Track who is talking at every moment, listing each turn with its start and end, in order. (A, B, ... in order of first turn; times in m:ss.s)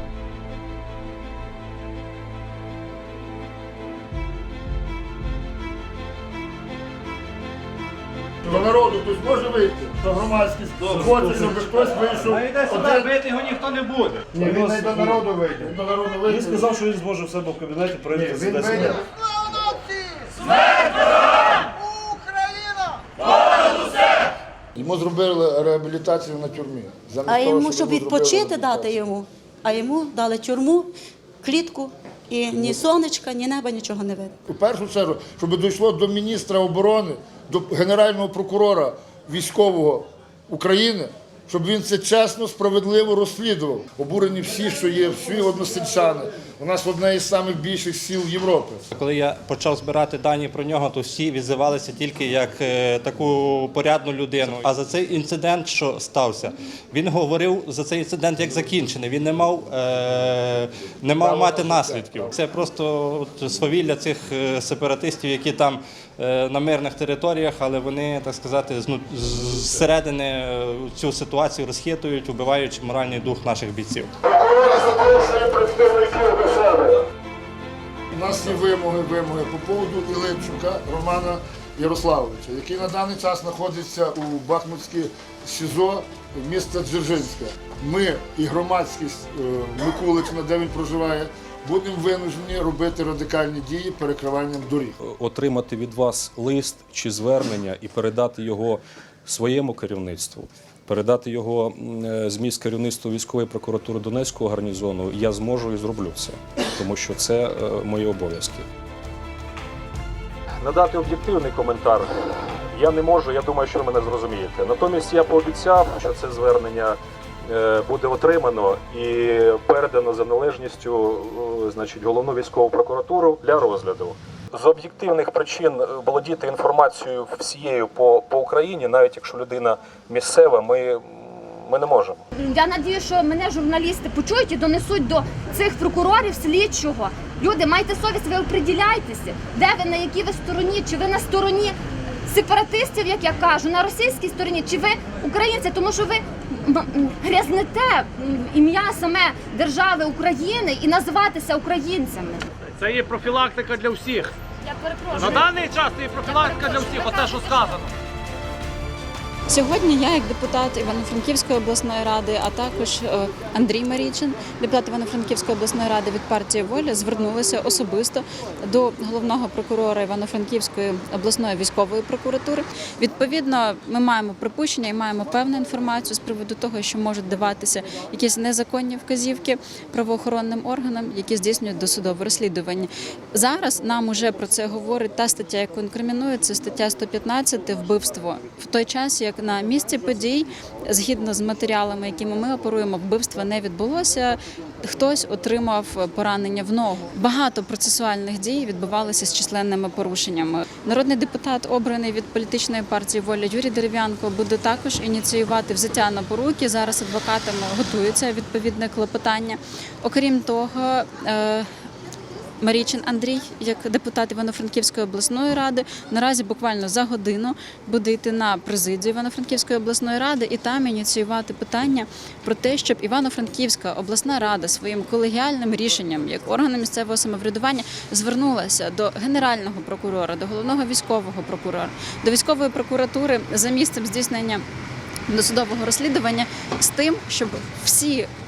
0:08.4-0:13.2 A
0:12.3-0:14.2 B
0:14.3-0:16.7 A
0:17.2-0:17.8 C
0:18.1-0:19.0 A
0:24.7-0:29.0 A
0:27.3-0:34.3 D
0:34.5-0:48.8 A
0:48.9-1:14.1 B
1:01.2-1:02.2 A
1:14.3-1:17.0 A
1:18.1-1:35.0 A
1:35.0-1:48.6 E
1:50.6-1:52.2 C
1:52.7-2:12.2 C
2:12.4-2:32.5 F
2:32.8-2:34.3 G
2:34.9-2:35.4 F
2:35.2-2:37.9 G
2:39.5-3:31.7 H
3:32.6-3:54.6 H
3:55.3-3:58.3 H